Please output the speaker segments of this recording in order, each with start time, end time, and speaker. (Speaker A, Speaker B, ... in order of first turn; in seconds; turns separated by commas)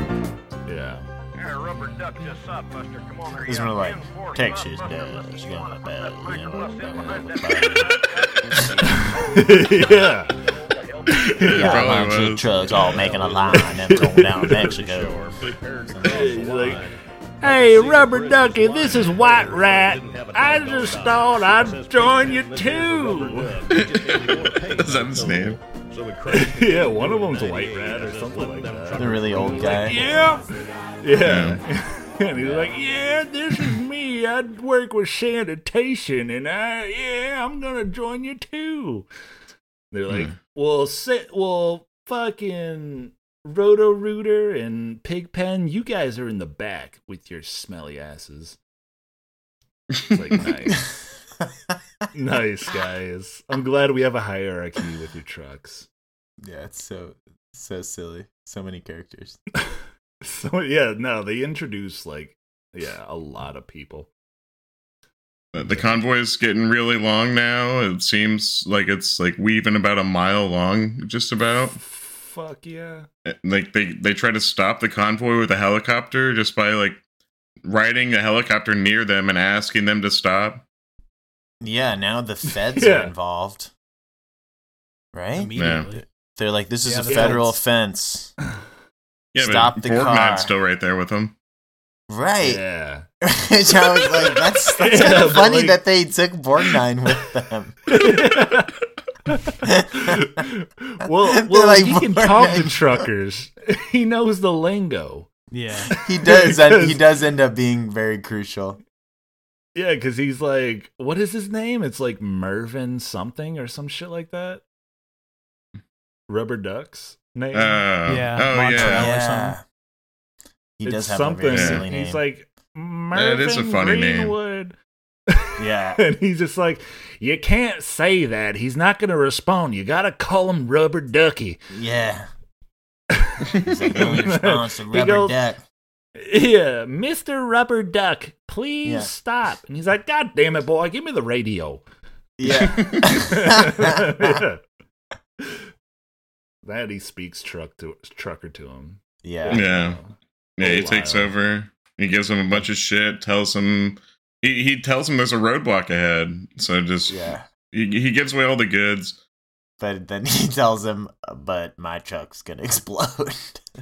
Speaker A: 0.7-1.1, Speaker B: 1.4-12.0, Speaker C: 3.5-8.0, Speaker A: 7.0-7.3, Speaker C: 8.6-9.0, Speaker A: 9.1-10.3, Speaker A: 11.2-11.8, Speaker D: 11.4-12.6, Speaker C: 11.5-15.3, Speaker B: 12.9-13.9, Speaker A: 13.6-14.7, Speaker B: 14.5-30.4, Speaker C: 15.9-16.4, Speaker A: 16.0-16.8, Speaker A: 17.4-23.6, Speaker D: 23.7-25.6, Speaker A: 26.3-30.5, Speaker C: 28.9-30.0, Speaker A: 31.0-39.1, Speaker D: 31.2-31.6, Speaker B: 32.3-32.8, Speaker A: 39.9-48.6, Speaker D: 40.1-40.4, Speaker A: 50.1-50.9, Speaker A: 52.1-55.9, Speaker C: 56.4-59.4, Speaker A: 60.2-64.1, Speaker D: 65.5-71.8, Speaker A: 71.8-73.1, Speaker D: 73.3-77.0, Speaker D: 77.6-80.6, Speaker C: 81.6-83.7, Speaker A: 82.7-83.1, Speaker C: 85.1-88.3, Speaker E: 85.3-86.0, Speaker D: 85.5-85.9, Speaker E: 86.8-87.5, Speaker A: 87.1-87.5, Speaker D: 89.3-91.3, Speaker C: 89.4-90.5, Speaker C: 92.1-92.6, Speaker A: 92.4-93.0, Speaker C: 93.2-98.1, Speaker A: 94.2-95.8, Speaker A: 97.9-98.7, Speaker A: 99.3-99.5, Speaker C: 99.6-100.3, Speaker A: 100.1-105.3, Speaker C: 101.4-103.0, Speaker E: 105.5-105.9, Speaker C: 106.0-108.8, Speaker A: 106.1-107.1, Speaker A: 109.7-114.6, Speaker A: 116.3-117.8, Speaker D: 117.5-119.1, Speaker E: 118.1-119.6, Speaker C: 118.8-119.6, Speaker C: 120.8-122.2, Speaker A: 120.8-124.8, Speaker D: 121.5-121.9, Speaker D: 123.1-124.3, Speaker A: 125.3-131.6, Speaker C: 125.6-126.0, Speaker C: 131.7-132.3, Speaker A: 133.1-135.4, Speaker C: 133.6-135.6, Speaker A: 136.2-141.8, Speaker C: 138.8-139.1, Speaker C: 142.4-144.4, Speaker D: 142.5-143.2, Speaker A: 143.2-144.6, Speaker A: 146.6-151.3, Speaker C: 149.2-149.7, Speaker D: 149.5-150.0, Speaker D: 150.6-157.2, Speaker C: 157.1-157.5, Speaker D: 157.7-159.2, Speaker C: 159.8-163.6